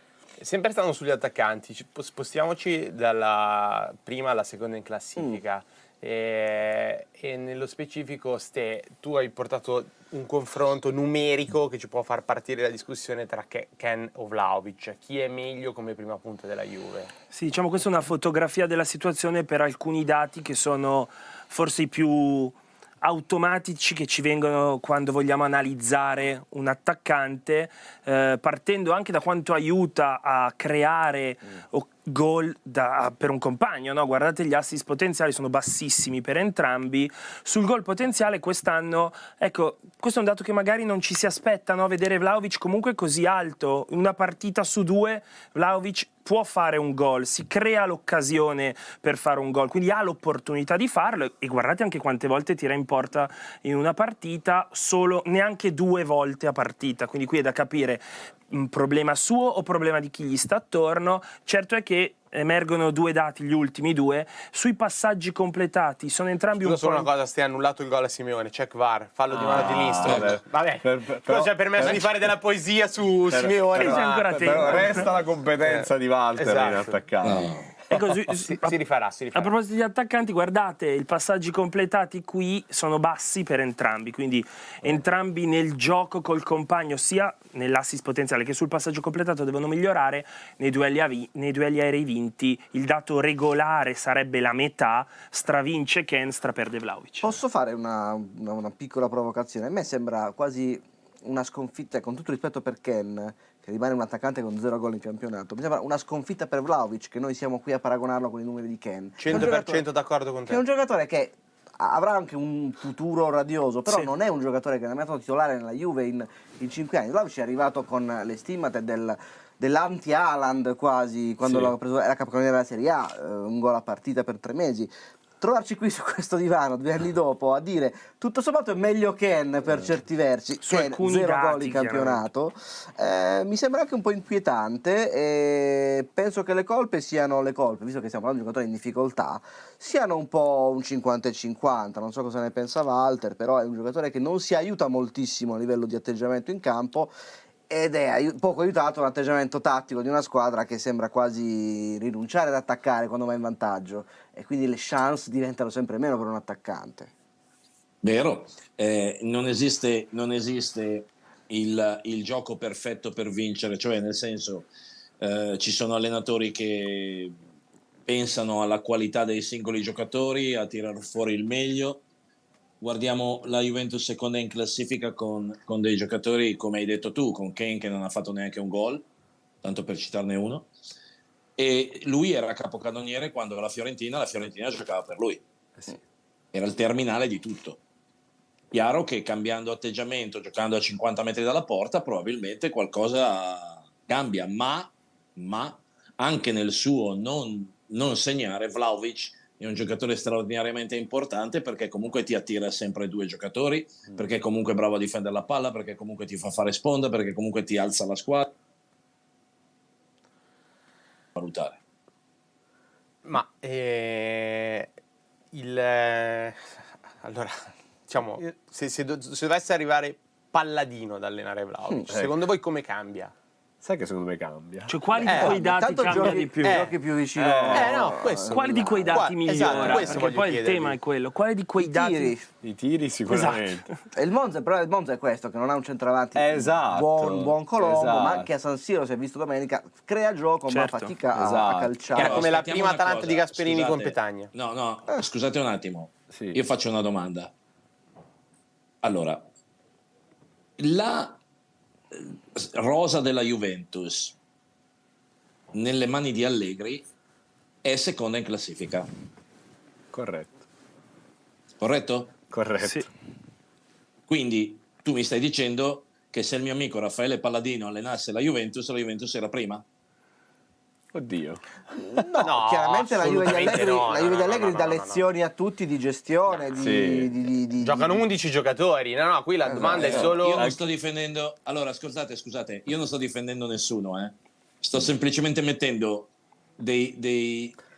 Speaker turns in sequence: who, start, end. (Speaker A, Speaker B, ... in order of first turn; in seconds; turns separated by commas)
Speaker A: 0.4-17.1, Speaker B: 17.3-67.1, Speaker A: 66.6-77.0, Speaker C: 69.3-72.1, Speaker D: 70.0-70.4, Speaker C: 73.3-77.5, Speaker B: 73.8-75.1, Speaker D: 77.2-77.7, Speaker B: 77.9-78.8, Speaker A: 78.3-79.5, Speaker B: 79.3-97.4, Speaker E: 97.2-109.8, Speaker A: 109.2-110.6, Speaker E: 110.5-147.1, Speaker D: 121.5-121.7, Speaker B: 130.6-132.3, Speaker E: 147.7-157.1, Speaker D: 158.0-164.7, Speaker D: 165.2-167.4, Speaker D: 168.1-172.0, Speaker D: 172.8-179.1, Speaker D: 179.6-180.7, Speaker D: 181.6-185.4, Speaker D: 186.5-187.8, Speaker D: 188.7-208.5, Speaker D: 211.3-211.8, Speaker A: 213.2-214.9, Speaker A: 215.5-216.6, Speaker A: 217.2-223.3, Speaker C: 223.8-225.5, Speaker B: 224.9-226.9, Speaker E: 225.2-229.3, Speaker A: 225.3-226.9, Speaker C: 227.4-228.1, Speaker A: 227.7-231.0, Speaker B: 228.5-232.3, Speaker C: 229.6-230.2, Speaker E: 231.8-232.5, Speaker C: 232.6-233.8, Speaker B: 233.3-233.9, Speaker E: 234.1-242.5, Speaker C: 236.3-238.5, Speaker B: 240.7-241.1, Speaker C: 241.3-241.9, Speaker A: 242.2-244.5, Speaker D: 242.2-247.5, Speaker C: 246.3-246.6, Speaker D: 249.0-249.4, Speaker D: 250.8-251.4, Speaker D: 252.1-254.4, Speaker D: 255.7-257.1, Speaker D: 257.8-259.1, Speaker C: 260.1-260.6, Speaker D: 261.8-262.4, Speaker C: 262.5-263.1, Speaker B: 262.8-263.1, Speaker D: 264.3-269.8, Speaker C: 271.1-271.6, Speaker E: 271.9-278.2, Speaker C: 272.2-272.4, Speaker A: 272.4-275.3, Speaker A: 276.5-276.8, Speaker C: 276.8-277.5, Speaker A: 277.8-280.7, Speaker E: 279.7-280.3, Speaker D: 279.9-287.8, Speaker C: 280.0-280.8